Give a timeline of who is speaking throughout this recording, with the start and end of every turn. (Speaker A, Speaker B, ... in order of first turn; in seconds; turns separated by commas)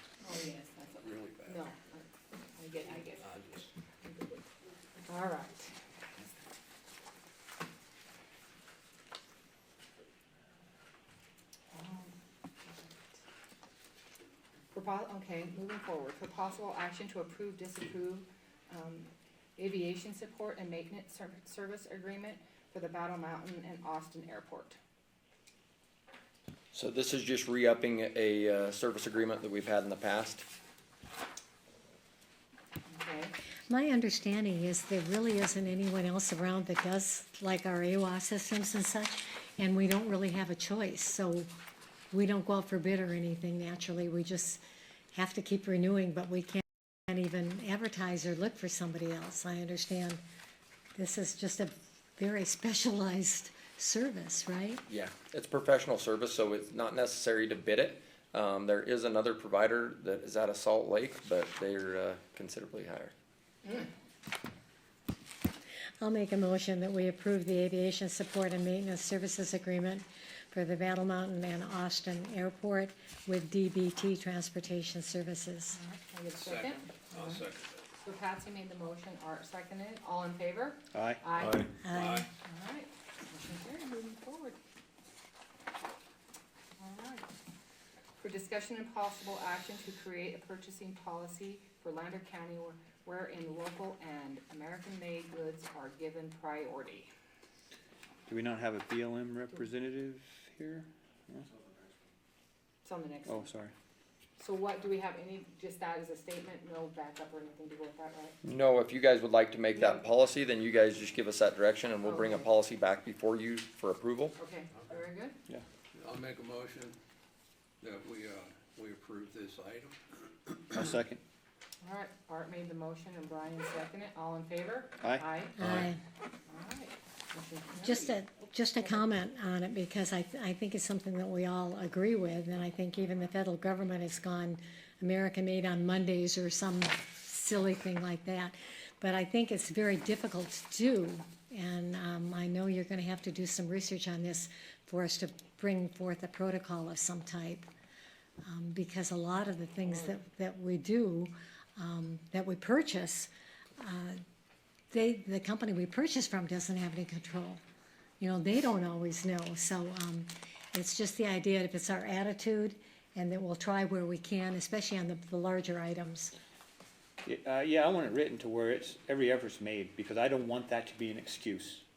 Speaker A: 0.2-3.3, Speaker B: 1.0-1.6, Speaker B: 3.2-3.7, Speaker A: 4.0-4.4, Speaker A: 5.1-6.3, Speaker A: 11.7-12.1, Speaker A: 12.7-13.0, Speaker A: 14.7-24.8, Speaker C: 26.7-30.4, Speaker A: 32.9-33.3, Speaker D: 33.7-41.5, Speaker D: 42.1-44.6, Speaker D: 45.1-50.2, Speaker D: 50.9-54.8, Speaker C: 54.9-63.1, Speaker D: 66.0-75.8, Speaker A: 75.7-77.4, Speaker B: 76.4-77.8, Speaker A: 78.0-81.7, Speaker E: 80.9-81.2, Speaker D: 81.8-82.3, Speaker B: 81.8-82.3, Speaker A: 82.4-84.6, Speaker A: 86.8-87.3, Speaker A: 88.2-97.1, Speaker E: 98.3-101.5, Speaker A: 102.8-103.5, Speaker E: 103.2-103.7, Speaker A: 104.4-108.3, Speaker C: 108.4-114.3, Speaker A: 109.8-110.0, Speaker A: 112.0-112.5, Speaker A: 114.4-115.3, Speaker B: 115.9-117.0, Speaker B: 117.8-120.0, Speaker E: 120.7-121.2, Speaker A: 121.8-125.6, Speaker E: 125.0-125.8, Speaker D: 125.6-126.0, Speaker A: 126.5-128.2, Speaker D: 127.8-147.7, Speaker D: 148.4-154.2, Speaker D: 154.9-157.6, Speaker D: 158.2-166.3, Speaker E: 167.2-171.8